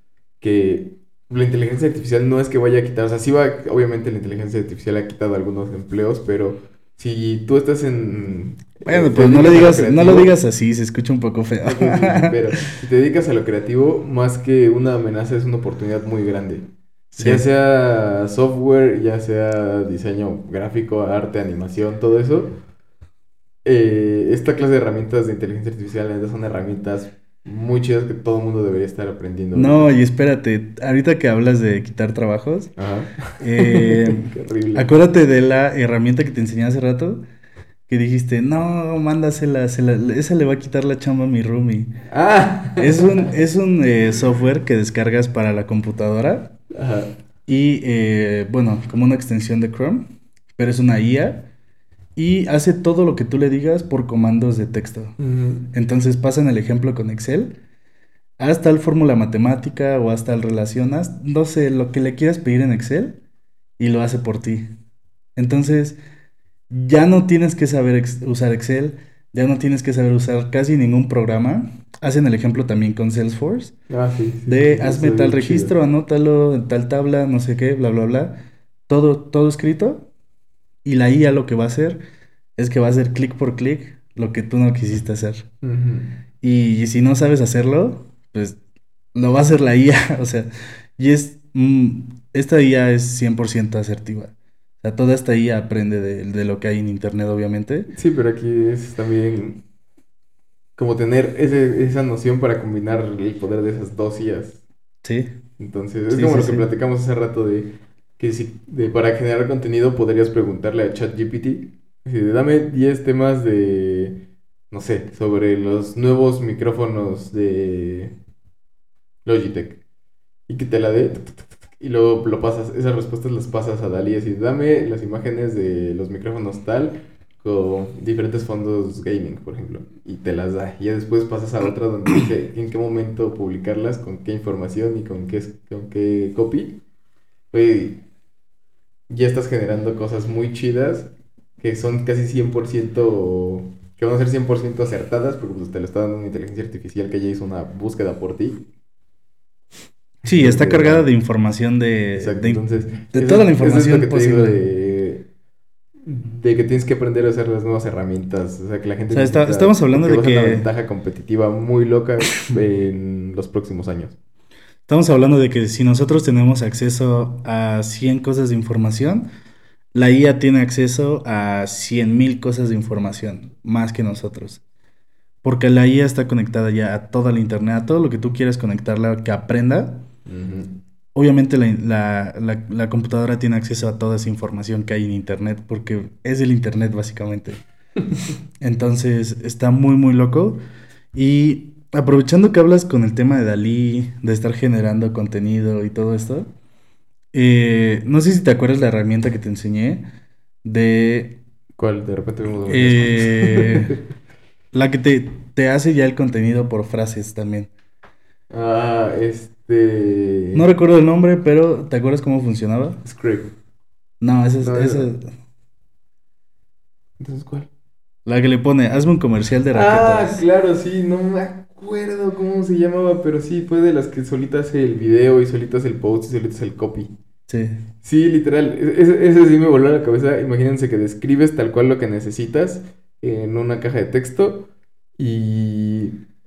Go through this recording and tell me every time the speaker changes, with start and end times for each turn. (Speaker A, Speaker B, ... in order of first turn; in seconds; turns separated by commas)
Speaker A: 0.4-10.3, Speaker B: 8.8-12.4, Speaker A: 11.6-16.7, Speaker B: 17.1-17.4, Speaker A: 17.2-22.5, Speaker A: 23.6-30.0, Speaker B: 29.5-32.7, Speaker A: 32.8-34.9, Speaker B: 33.4-37.2, Speaker B: 37.9-41.9, Speaker A: 42.1-43.3, Speaker B: 42.8-46.5, Speaker A: 46.7-47.1, Speaker B: 47.5-51.5, Speaker B: 52.2-55.1, Speaker A: 55.2-55.7, Speaker B: 55.7-57.5, Speaker B: 58.4-63.2, Speaker B: 63.8-64.7, Speaker B: 65.4-66.0, Speaker B: 66.7-73.7, Speaker A: 73.9-75.7, Speaker B: 74.5-78.4, Speaker B: 78.9-80.0, Speaker B: 80.8-82.0, Speaker B: 82.6-85.5, Speaker A: 85.6-86.2, Speaker B: 86.4-88.6, Speaker B: 89.1-97.9, Speaker A: 97.9-99.6, Speaker A: 100.8-104.6, Speaker B: 105.0-105.3, Speaker A: 105.6-118.1, Speaker B: 106.1-106.6, Speaker A: 119.2-119.8, Speaker A: 120.5-136.8, Speaker A: 137.5-138.0, Speaker A: 139.1-148.7, Speaker A: 150.2-151.1, Speaker B: 150.2-154.6, Speaker A: 152.2-155.2, Speaker A: 156.1-164.2, Speaker B: 159.1-160.7, Speaker B: 164.9-169.3, Speaker B: 169.9-174.6, Speaker B: 175.4-180.0, Speaker A: 180.3-180.8, Speaker B: 181.2-187.6, Speaker B: 188.6-190.6, Speaker B: 191.1-196.5, Speaker B: 197.3-200.1, Speaker B: 200.6-201.4, Speaker A: 201.8-204.0, Speaker B: 202.7-203.9, Speaker B: 204.7-207.7, Speaker A: 208.5-210.7, Speaker B: 210.5-213.0, Speaker A: 213.0-213.5, Speaker B: 214.2-215.3, Speaker A: 214.6-215.1, Speaker A: 217.2-217.7, Speaker B: 218.2-220.4, Speaker A: 219.7-227.1, Speaker B: 227.5-227.8, Speaker A: 228.0-236.2